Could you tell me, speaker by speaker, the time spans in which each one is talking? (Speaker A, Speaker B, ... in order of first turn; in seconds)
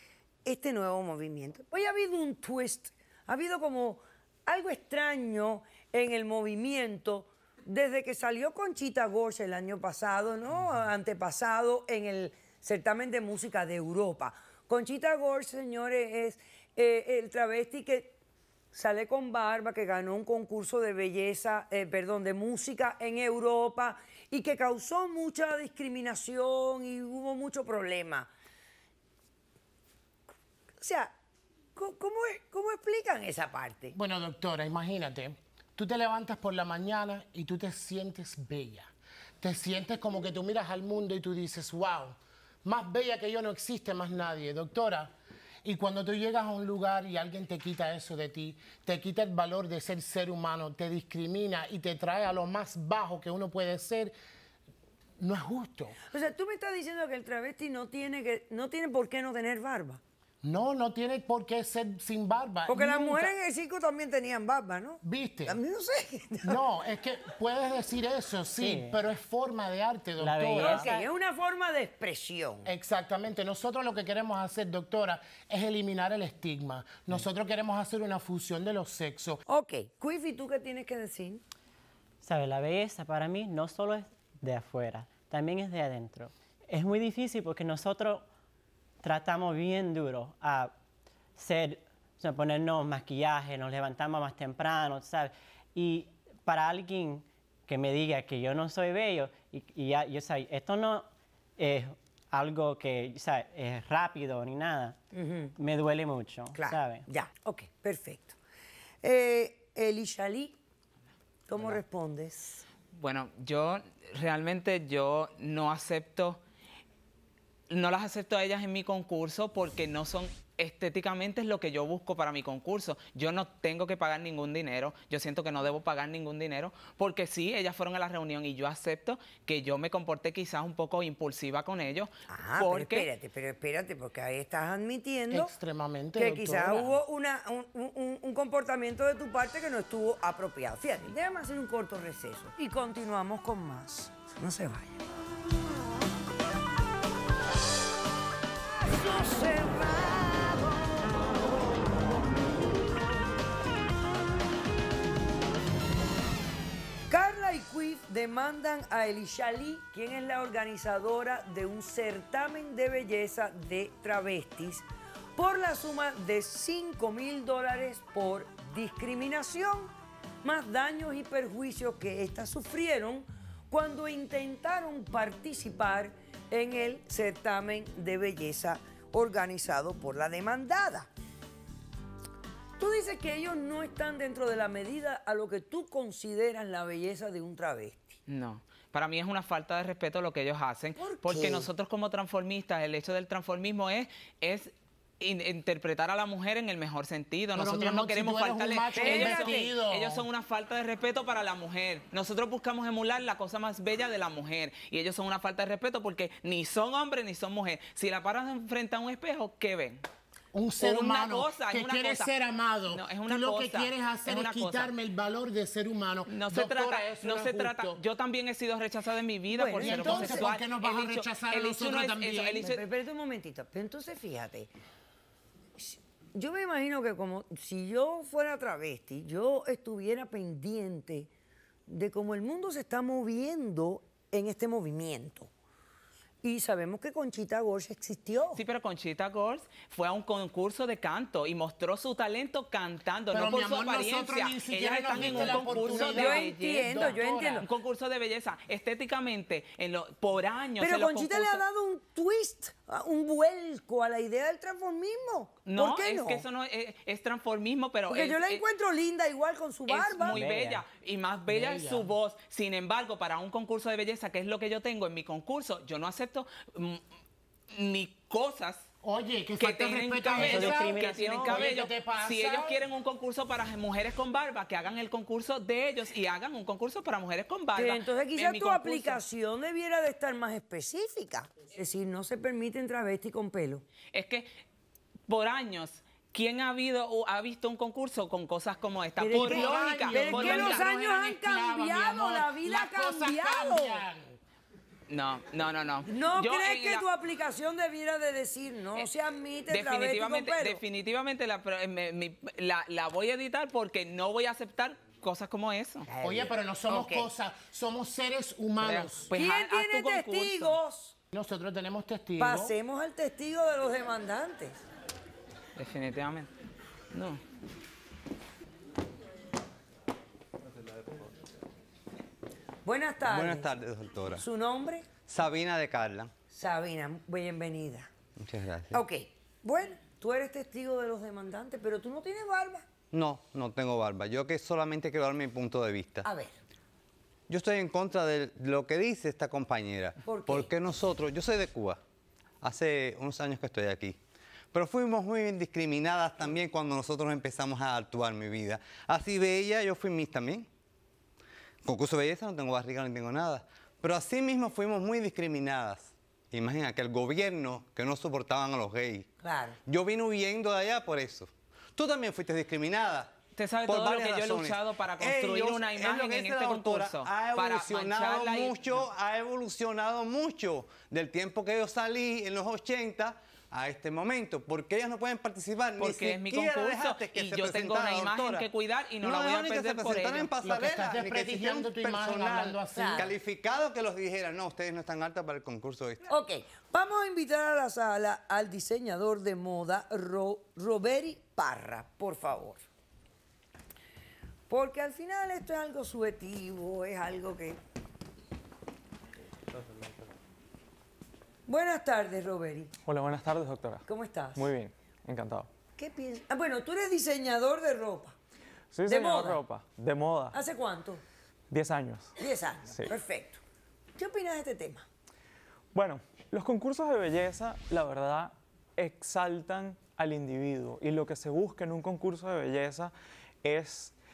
Speaker A: 0.4-18.1, 18.7-28.3, 30.8-31.1, 31.8-33.9, 56.1-60.0, 62.7-66.6, 70.6-72.7, 79.5-81.4, 105.1-105.5, 106.5-108.4, 109.0-110.5, 111.5-112.6, 132.3-135.5, 136.1-145.0, 148.8-151.3, 157.1-169.9, 170.4-181.1, 182.8-188.2, 191.0-191.7, 198.9-199.7, 219.5-220.5, 222.6-224.7, 225.8-231.3, 231.9-235.5, 236.4-238.6, 245.2-247.7, 250.8-256.4, 258.1-260.4, 277.8-283.8, 289.2-294.1, 296.1-300.8, 306.1-307.3, 309.3-311.1, 312.4-314.8, 322.8-323.7, 324.3-325.1, 326.5-328.1, 328.9-332.8, 336.2-336.6, 340.2-340.7, 359.4-359.8, 382.9-383.3, 386.3-392.8, 394.7-397.8, 401.7-402.9, 404.0-404.7, 406.0-408.3, 409.1-409.6, 410.5-411.2, 412.4-413.6, 414.1-415.1
Speaker B: 33.9-45.1, 45.6-54.1, 55.2-56.0, 60.4-63.3, 65.0-65.6, 66.4-70.9, 72.6-79.4, 135.3-137.0, 197.5-200.2, 210.5-218.0, 219.8-222.8, 243.3-247.7, 261.5-262.1, 269.0-272.8, 289.3-294.4, 306.2-309.3, 311.3-312.8, 380.6-383.3
Speaker C: 68.6-69.0, 70.2-71.0, 82.2-88.2, 89.0-90.7, 91.4-101.0, 101.6-105.0, 105.6-107.0, 260.3-260.8, 270.4-271.7
Speaker D: 112.9-116.4, 117.7-133.1, 188.3-210.0, 210.8-212.3, 212.9-214.9, 216.3-222.8, 238.5-251.6, 255.7-258.6, 259.9-267.0, 267.7-268.8, 269.6-279.2, 284.1-284.4, 285.3-290.9, 295.1-297.0, 299.7-306.0, 308.8-310.8, 315.8-316.5, 317.1-317.4, 363.6-369.1, 376.0-380.5
Speaker E: 323.2-324.4, 325.3-326.3, 328.4-329.0, 333.1-336.3, 337.5-342.0, 342.6-344.2, 344.7-350.7, 351.8-359.3, 359.9-363.3, 363.9-378.6, 379.2-386.2
Speaker F: 403.1-404.0, 404.5-405.7, 408.9-410.6, 411.7-412.3, 415.9-423.1, 423.6-424.1